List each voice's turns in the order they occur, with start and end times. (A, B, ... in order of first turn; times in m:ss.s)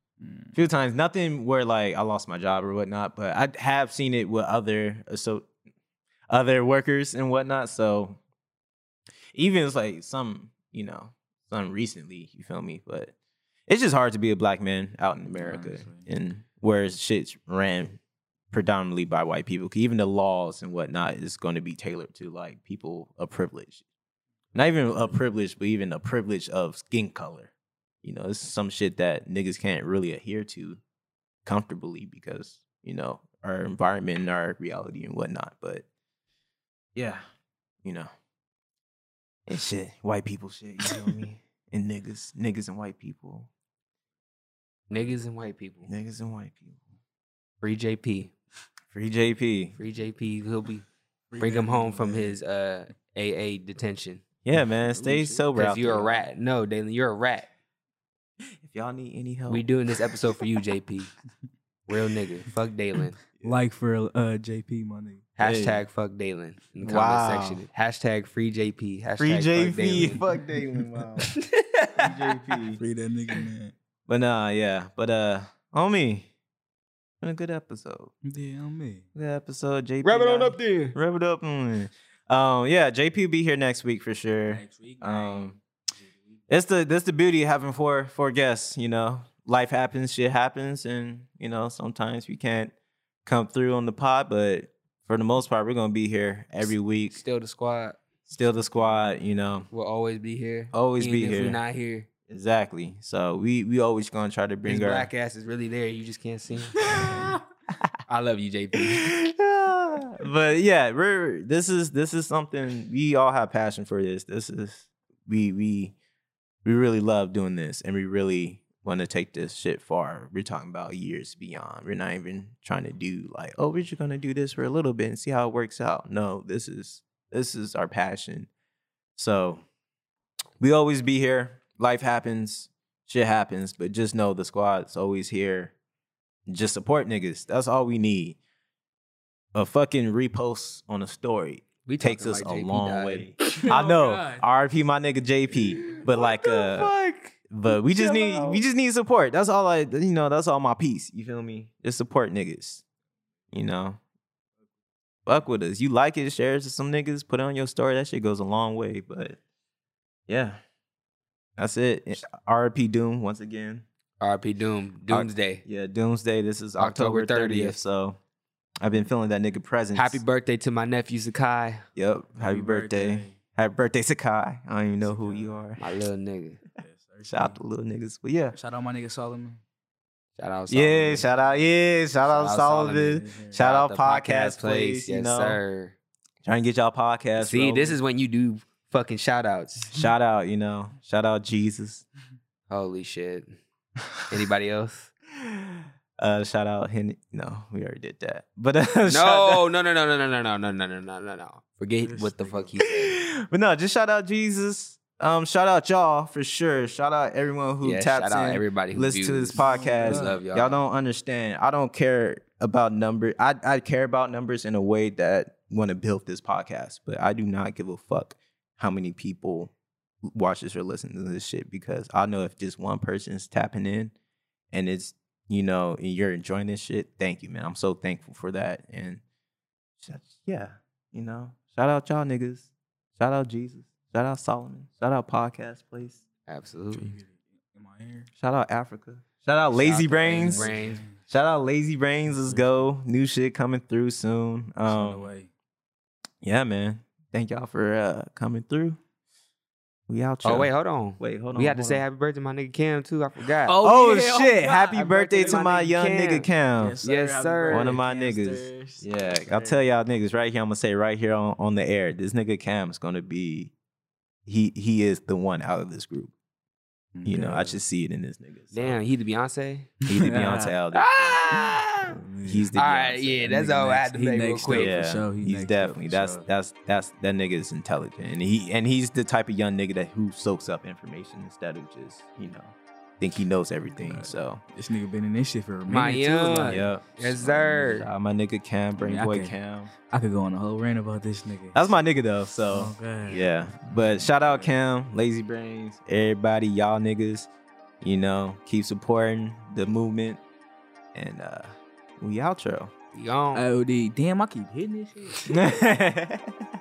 0:00.2-0:00.5 A
0:00.5-0:05.5 B
0:06.3-0:08.2 B
0:09.3-0:13.1 B
0:13.7-0:18.0 B
0:15.3-0:16.1 A
0:18.5-0:23.8 B
0:24.5-0:27.5 B
0:24.9-0:25.2 A
0:28.0-0:30.8 B
0:31.4-0:35.8 B
0:36.9-0:37.2 B
0:37.8-0:38.1 B
0:39.5-0:43.5 B
0:44.9-0:45.9 C
0:45.9-0:46.8 B
0:47.6-0:48.3 C
0:48.9-0:49.8 B
0:49.8-0:50.8 C
0:51.3-0:52.3 A
0:51.4-0:54.2 C
0:54.4-0:56.2 B
0:54.9-0:55.5 A
0:55.5-0:57.5 C
0:58.6-0:59.6 B
0:59.5-1:01.1 C
1:01.9-1:03.2 C
1:03.4-1:05.2 A
1:05.4-1:10.2 C
1:05.4-1:05.8 B
1:06.8-1:07.6 B
1:09.2-1:11.3 B
1:10.0-1:10.4 A
1:11.3-1:12.1 C
1:12.0-1:12.8 B
1:12.8-1:13.7 A
1:14.1-1:16.3 B
1:17.2-1:18.1 B
1:18.2-1:19.0 A
1:19.1-1:25.5 B
1:20.0-1:21.0 C
1:24.5-1:26.1 A
1:26.5-1:32.7 B
1:33.2-1:37.2 B
1:37.1-1:38.0 C
1:38.3-1:39.7 B
1:39.7-1:42.1 C
1:40.7-1:41.6 B
1:42.3-1:45.1 B
1:44.6-1:47.1 C
1:46.9-1:47.2 A
1:47.0-1:47.3 B
1:48.1-1:49.1 C
1:48.9-1:55.9 B
1:56.6-2:08.5 B
2:09.2-2:09.6 B
2:10.6-2:15.7 B
2:16.5-2:18.4 B
2:19.5-2:26.9 B
2:21.8-2:23.7 C
2:23.5-2:24.4 A
2:25.8-2:27.3 C
2:27.5-2:32.8 B
2:28.0-2:28.4 C
2:33.5-2:34.0 B
2:35.2-2:39.4 B
2:40.3-2:40.6 B
2:41.6-2:43.8 B
2:44.2-2:45.6 C
2:45.1-2:48.2 B
2:46.8-2:47.8 C
2:48.8-2:50.2 B
2:49.9-2:51.8 C
2:52.0-2:55.8 B
2:52.4-2:53.4 A
2:55.0-2:55.6 A
2:55.8-2:56.6 C
2:56.8-2:57.6 A
2:57.3-2:58.6 B
2:58.5-2:59.6 A
3:00.4-3:01.3 C
3:00.7-3:05.6 B
3:02.2-3:06.0 C
3:03.2-3:03.6 A
3:06.4-3:08.0 B
3:07.4-3:10.0 C
3:09.9-3:12.0 B
3:12.7-3:13.6 C
3:14.3-3:15.1 C
3:15.4-3:19.6 B
3:19.1-3:23.2 C
3:22.0-3:22.8 A
3:22.8-3:39.7 B
3:27.8-3:30.8 C
3:29.5-3:30.4 A
3:40.2-3:44.1 B
3:44.7-3:49.2 B
3:50.0-3:56.2 B
3:56.5-3:57.1 C
3:56.9-3:58.3 A
3:58.4-4:00.7 B
3:59.8-4:01.2 A
4:00.0-4:01.0 C
4:01.3-4:05.3 B
4:02.2-4:02.9 A
4:04.8-4:05.5 A
4:06.4-4:09.0 B
4:10.1-4:12.0 B
4:10.4-4:13.8 C
4:13.6-4:15.7 A
4:13.8-4:17.0 B
4:14.7-4:16.5 C
4:16.8-4:19.8 A
4:17.0-4:18.0 C
4:17.7-4:23.7 B
4:24.4-4:26.3 B
4:27.2-4:27.8 A
4:27.2-4:29.0 B
4:28.7-4:29.9 C
4:30.1-4:31.4 B
4:30.1-4:30.7 A
4:30.9-4:32.1 C
4:32.1-4:32.7 A
4:32.4-4:33.5 B
4:32.7-4:35.0 C
4:33.5-4:36.4 A
4:34.7-4:44.6 B
4:43.9-4:46.8 A
4:45.9-4:48.1 C
4:46.6-4:49.9 B
4:49.0-4:51.8 A
4:51.7-4:57.5 B
4:52.7-4:54.7 A
4:58.0-5:00.4 B
5:01.1-5:02.9 B
5:03.1-5:03.6 C
5:03.5-5:05.5 A
5:05.5-5:06.7 B